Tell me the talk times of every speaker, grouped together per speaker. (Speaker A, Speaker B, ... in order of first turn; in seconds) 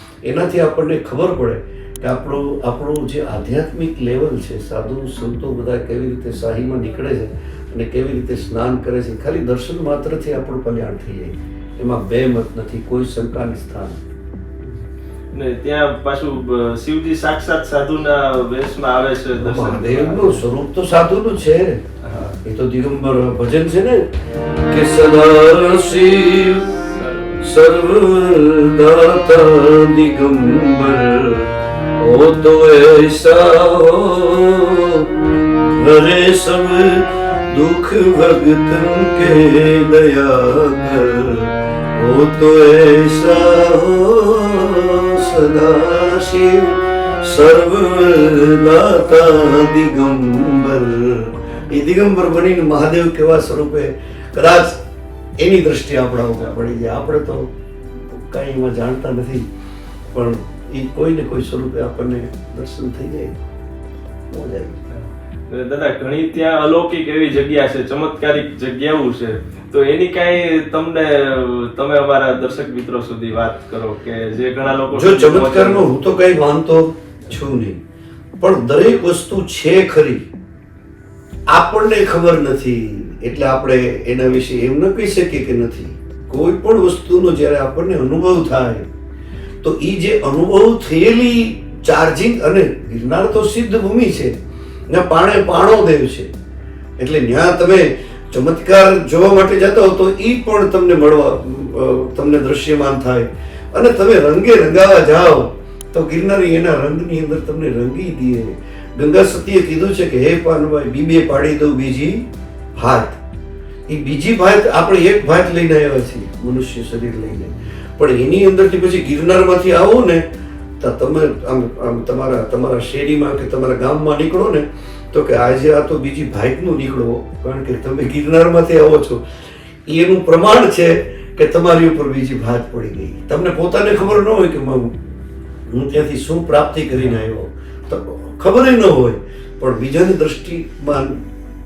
Speaker A: 0.2-14.0, 19.4-21.8, 22.4-24.1, 24.7-26.7, 27.4-35.1, 35.7-54.8, 55.4-57.5, 58.1-59.5, 60.1-63.4, 64.3-64.8, 74.9-77.8, 78.4-80.2, 81.5-88.9, 89.6-94.3, 94.9-96.3, 97.0-112.2, 112.8-113.2, 113.9-120.2, 120.8-129.2, 129.9-135.0, 135.7-141.2
Speaker B: 15.3-20.4, 22.0-22.4, 26.9-27.4, 64.9-75.9